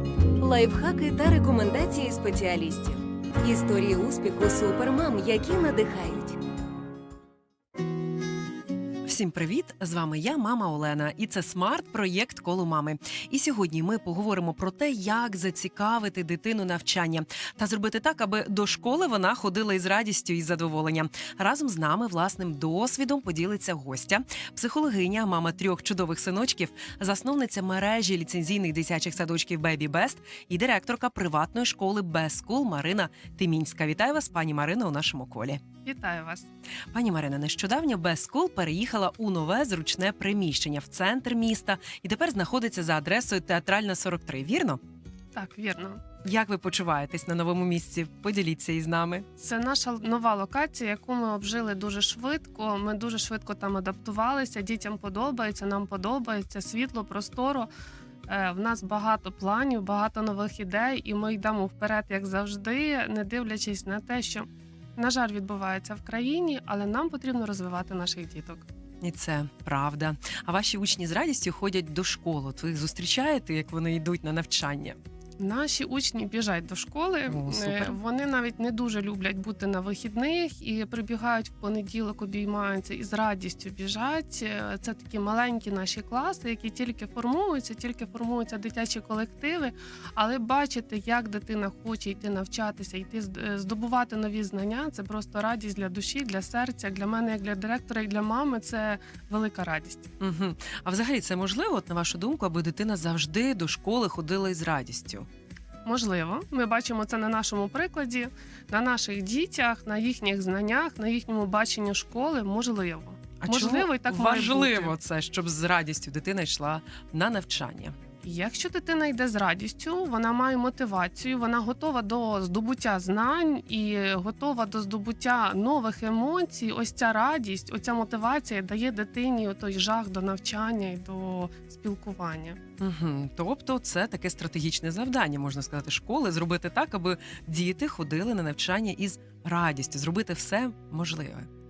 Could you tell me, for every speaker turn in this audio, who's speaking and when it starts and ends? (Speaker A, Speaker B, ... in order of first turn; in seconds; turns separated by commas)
Speaker A: 0.4-6.4, Speaker B: 9.0-35.6, Speaker C: 35.8-36.5, Speaker B: 36.9-44.8, Speaker C: 45.3-46.0, Speaker B: 46.2-49.2, Speaker C: 49.4-57.7, Speaker C: 58.3-68.7, Speaker B: 69.0-75.0, Speaker C: 75.4-100.1, Speaker B: 77.3-78.0, Speaker B: 100.2-105.3, Speaker C: 105.8-114.9, Speaker B: 113.4-117.9, Speaker C: 118.2-132.6, Speaker B: 132.8-141.5